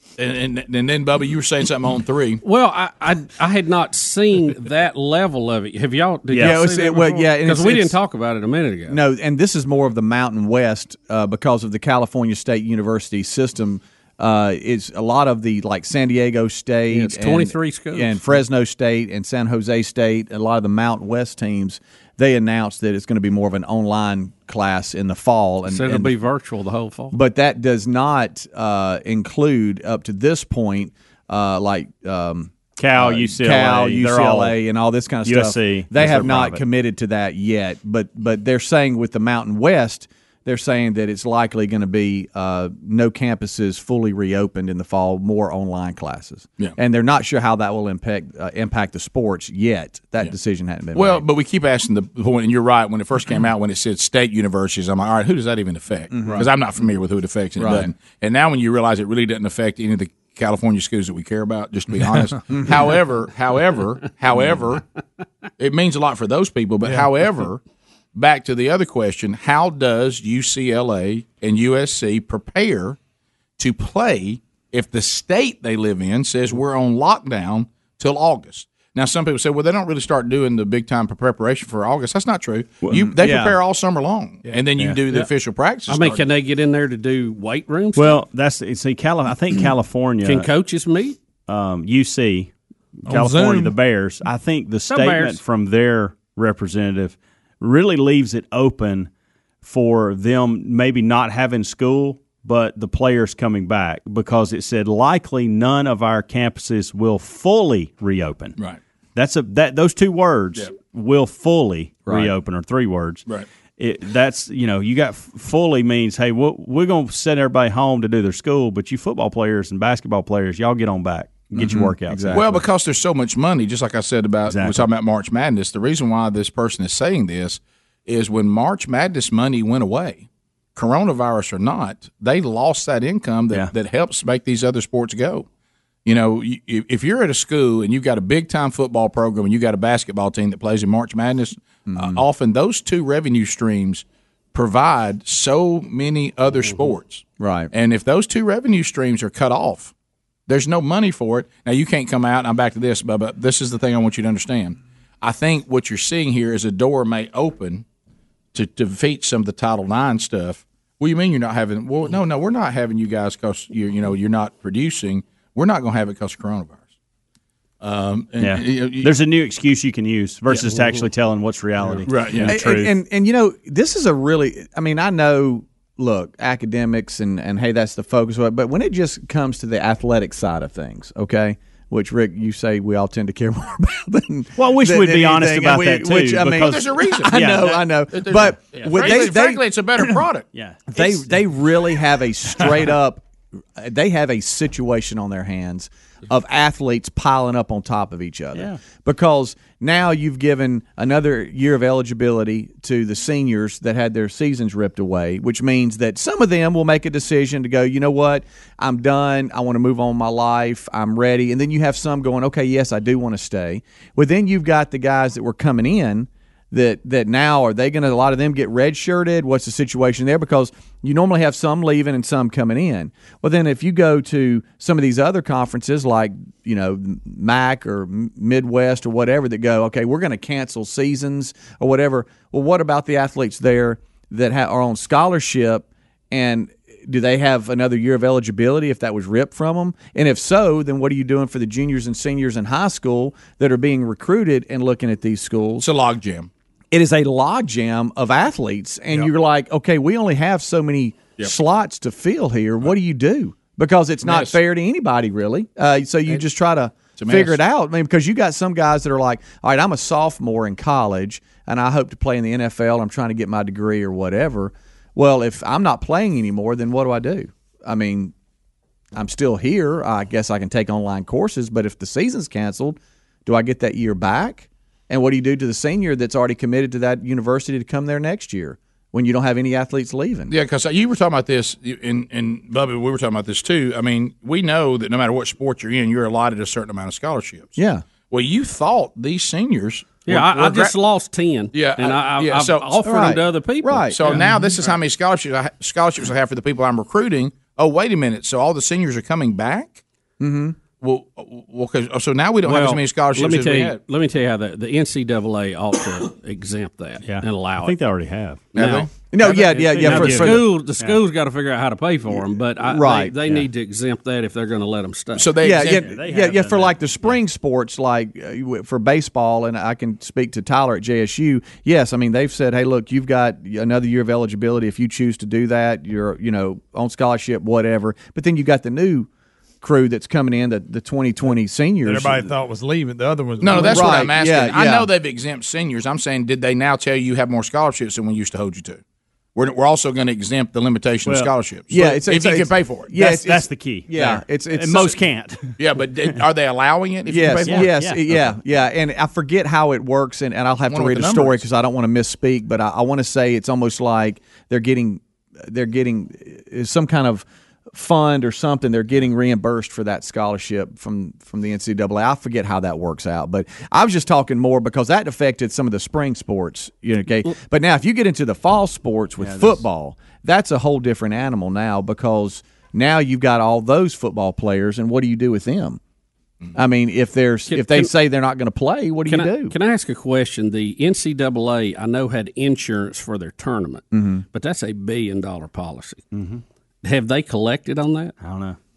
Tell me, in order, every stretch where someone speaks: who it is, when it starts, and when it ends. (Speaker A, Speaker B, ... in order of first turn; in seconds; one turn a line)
Speaker A: 0.2-2.4
Speaker B: 2.4-9.0
Speaker C: 6.3-6.6
Speaker D: 6.4-8.0
Speaker D: 8.9-26.1
Speaker B: 16.9-18.2
Speaker B: 25.7-27.1
Speaker D: 27.1-51.2
Speaker C: 32.8-34.6
Speaker C: 35.2-36.6
Speaker A: 50.9-64.8
Speaker D: 56.1-56.5
Speaker D: 57.6-57.9
Speaker A: 65.6-67.6
Speaker A: 68.1-73.0
Speaker A: 73.6-86.2
Speaker D: 82.9-83.5
Speaker B: 85.9-88.2
Speaker C: 87.9-90.5
Speaker B: 90.2-91.2
Speaker C: 91.5-99.1
Speaker E: 93.1-93.7
Speaker B: 94.9-95.4
Speaker C: 99.6-108.5
Speaker C: 109.1-113.3
Speaker D: 112.1-112.3
Speaker C: 113.8-122.5
Speaker D: 121.5-122.6
Speaker A: 122.3-135.4
Speaker C: 124.5-124.9
Speaker A: 136.0-149.9
Speaker D: 141.9-142.2
Speaker D: 147.4-147.7
Speaker A: 150.5-157.8
Speaker A: 158.5-166.8
Speaker A: 167.8-169.1
Speaker C: 168.4-173.0
Speaker A: 172.0-172.5
Speaker D: 172.4-190.1
Speaker C: 184.6-188.0
Speaker A: 186.6-187.5
Speaker A: 188.1-190.4
Speaker C: 188.7-189.3
Speaker C: 190.5-191.4
Speaker D: 190.9-193.2
Speaker D: 193.8-245.9
Speaker C: 198.5-198.8
Speaker A: 245.8-246.5
Speaker D: 246.9-268.3
Speaker A: 254.2-254.6
Speaker A: 257.2-257.6
Speaker D: 269.1-280.5
Speaker A: 280.5-287.8
Speaker D: 287.8-288.0
Speaker A: 288.3-290.9
Speaker B: 290.2-294.5
Speaker A: 291.7-292.9
Speaker D: 293.0-294.3
Speaker A: 294.1-300.0
Speaker D: 300.4-300.8
Speaker A: 301.0-304.0
Speaker B: 302.6-308.0
Speaker C: 307.2-308.7
Speaker B: 308.7-315.5
Speaker A: 308.7-309.1
Speaker D: 309.3-310.7
Speaker C: 309.5-311.2
Speaker D: 312.8-313.3
Speaker A: 315.3-316.1
Speaker D: 315.6-329.3
Speaker C: 315.8-317.4
Speaker D: 329.8-332.5
Speaker E: 332.0-334.3
Speaker A: 333.6-339.0
Speaker D: 333.7-335.1
Speaker A: 339.5-343.1
Speaker C: 341.2-341.5
Speaker D: 341.9-345.1
Speaker C: 343.1-345.8
Speaker A: 345.8-347.9
Speaker D: 347.3-376.0
Speaker C: 347.6-348.6
Speaker A: 350.9-351.6
Speaker C: 369.4-369.8
Speaker D: 376.7-379.7
Speaker B: 377.7-378.1
Speaker B: 379.3-386.2
Speaker D: 384.1-384.4
Speaker C: 386.3-386.6
Speaker B: 387.0-388.3
Speaker C: 388.4-388.8